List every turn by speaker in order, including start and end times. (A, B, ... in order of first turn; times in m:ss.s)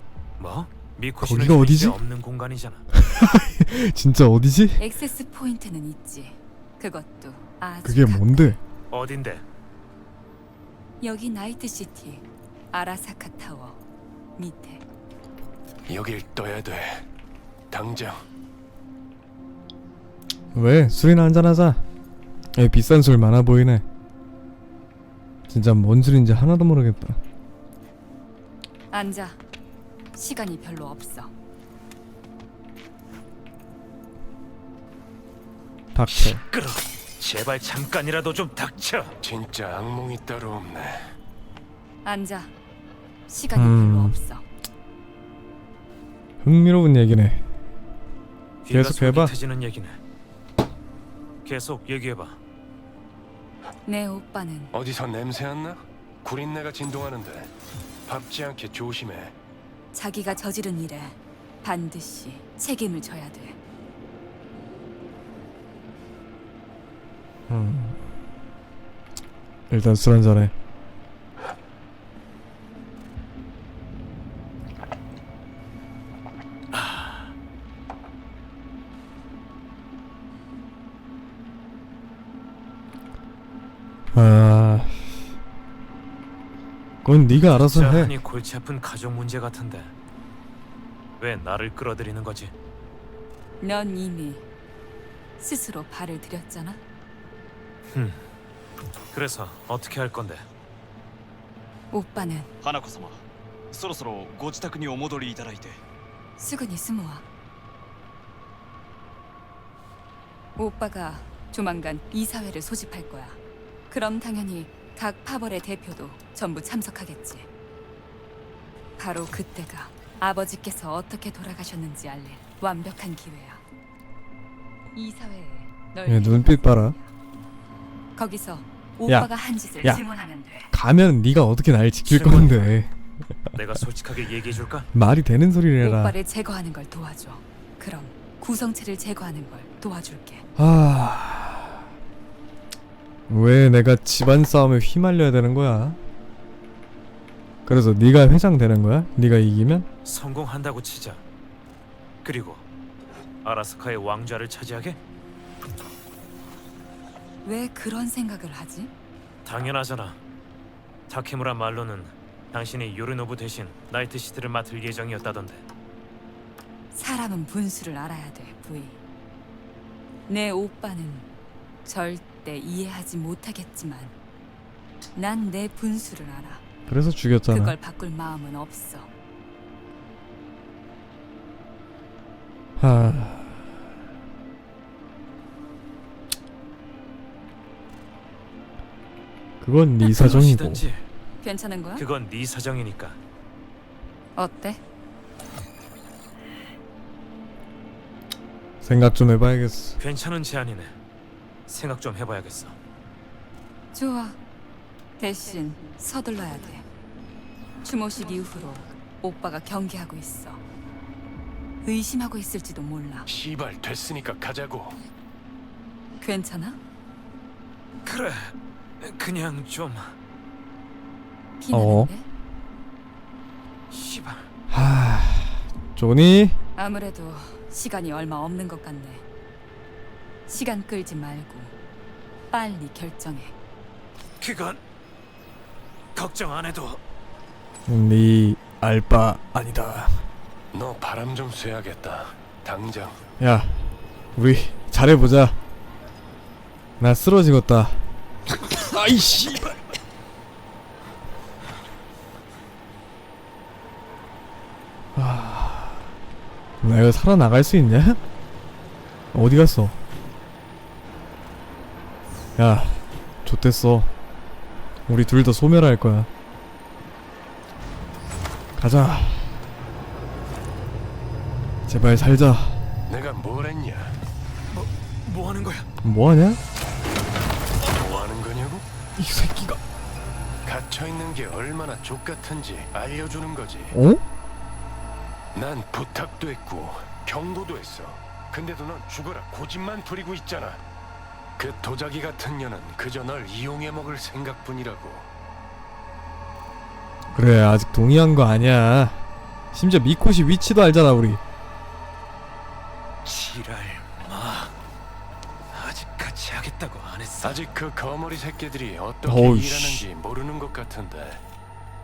0:00.4-0:02.9 A
0:01.2-0:02.0 B
0:03.0-0:04.8 B
0:04.8-0:08.6 C
0:07.8-0:08.6 B
0:08.9-0:09.4 A
0:11.0-0:13.8 C
0:14.4-0:14.8 C
0:15.9-0:17.1 D
0:17.7-0:18.2 D
0:20.6-0:21.8 B
0:22.6-0:23.8 B
0:25.5-0:27.2 B
0:28.9-0:29.4 C
0:30.1-0:31.3 C
0:35.9-0:36.4 B
0:36.1-0:39.2 A
0:39.2-0:41.1 D
0:42.0-0:42.5 C
0:43.3-0:44.4 C
0:43.5-0:44.2 B
0:46.4-0:47.4 B
0:48.6-0:50.0 A
0:48.7-0:49.4 B
0:51.4-0:52.4 A
0:53.8-0:54.7 C
0:54.7-0:57.5 D
0:58.0-0:59.4 D
0:59.9-1:03.6 C
1:07.5-1:08.0 B
1:09.7-1:10.5 B
1:16.7-1:17.3 A
1:24.1-1:25.2 B
1:27.0-1:28.2 B
1:27.4-1:29.9 A
1:31.2-1:32.5 A
1:33.6-1:34.4 C
1:35.4-1:36.8 C
1:37.9-1:38.2 A
1:39.1-1:40.4 A
1:41.9-1:42.5 C
1:42.6-1:45.8 E
1:46.4-1:47.2 C
1:50.6-1:57.5 C
1:59.0-2:03.6 C
2:04.9-2:07.1 C
2:06.0-2:07.0 B
2:08.2-2:10.7 C
2:10.7-2:12.9 B
2:12.1-2:12.8 A
2:13.5-2:14.9 A
2:14.9-2:16.2 B
2:15.8-2:20.5 C
2:20.6-2:21.7 B
2:23.3-2:26.0 B
2:27.7-2:29.9 B
2:30.0-2:31.2 A
2:32.2-2:32.6 A
2:33.4-2:35.0 A
2:37.4-2:38.9 C
2:39.4-2:40.2 A
2:41.1-2:45.6 A
2:46.9-2:49.0 C
2:50.3-2:51.3 C
2:51.8-2:54.1 C
2:55.2-2:56.6 C
2:56.9-2:57.8 B
2:57.5-2:59.1 C
3:02.8-3:03.6 B
3:09.6-3:10.9 B
3:10.0-3:11.1 A
3:11.4-3:12.0 C
3:12.0-3:13.2 A
3:14.4-3:14.8 C
3:18.8-3:20.0 B
3:20.0-3:21.0 A
3:21.7-3:22.8 A
3:23.9-3:24.4 C
3:25.2-3:26.8 C
3:27.8-3:30.6 C
3:31.8-3:33.3 C
3:33.3-3:35.0 D
3:36.2-3:36.8 C
3:38.0-3:40.2 A
3:41.6-3:42.3 C
3:41.7-3:42.1 B
3:43.9-3:44.5 A
3:44.7-3:46.6 B
3:46.8-3:49.2 C
3:50.5-3:51.7 C
3:52.5-3:53.5 C
3:54.4-3:54.8 A
3:56.2-3:57.0 A
3:57.9-4:00.3 B
4:00.7-4:03.2 D
4:03.4-4:05.6 B
4:07.0-4:08.0 B
4:08.6-4:09.8 B
4:15.2-4:16.1 B
4:16.8-4:18.2 B
4:19.3-4:20.0 B
4:22.6-4:24.1 B
4:25.1-4:26.3 B
4:28.8-4:29.6 B
4:31.9-4:32.8 B
4:33.1-4:34.2 D
4:34.7-4:35.9 A
4:36.0-4:36.6 B
4:37.9-4:38.9 D
4:39.2-4:39.8 B
4:40.6-4:43.9 D
4:43.9-4:44.2 B
4:45.5-4:50.8 D
4:51.6-4:55.3 D
4:57.4-4:59.2 B
4:59.7-5:01.4 B
5:03.2-5:04.7 A
5:05.7-5:07.6 A
5:07.4-5:11.4 D
5:09.2-5:10.0 B